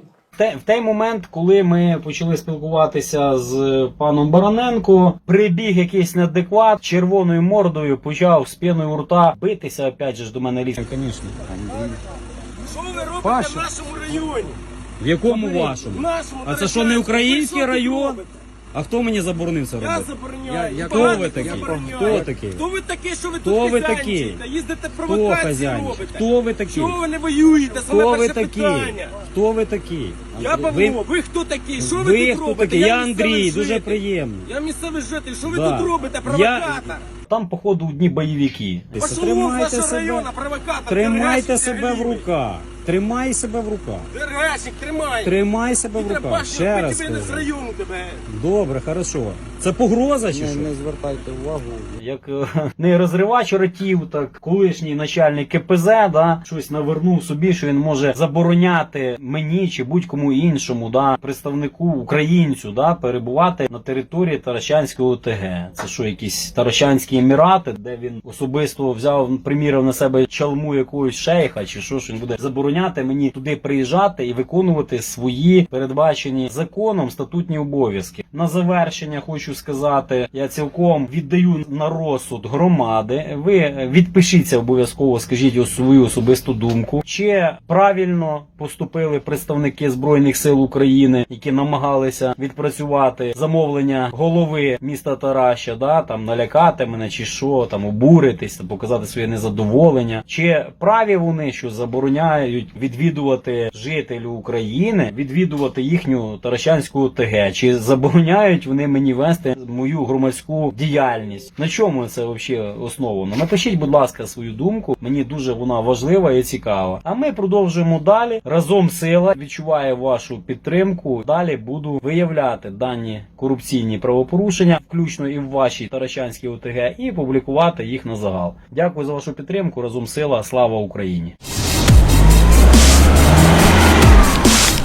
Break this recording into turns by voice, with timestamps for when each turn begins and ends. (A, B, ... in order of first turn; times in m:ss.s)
0:00.4-0:12.0 A
0:12.7-0:14.6 B
0:13.2-0:13.7 C
0:15.0-0:20.1 A
0:15.3-0:15.8 C
0:15.9-0:18.3 B
0:19.8-0:29.2 B
0:20.5-0:22.3 C
0:20.8-0:22.6 A
0:23.4-0:24.4 A
0:25.1-0:27.0 A
0:27.9-0:31.0 A
0:30.4-0:37.0 B
0:31.8-0:34.5 A
0:35.4-0:40.3 A
0:39.0-0:42.2 B
0:40.9-0:44.1 A
0:44.1-0:45.4 B
0:45.2-0:47.5 A
0:45.9-0:48.2 B
0:48.3-0:50.8 A
0:50.3-0:52.0 C
0:52.0-2:11.4 A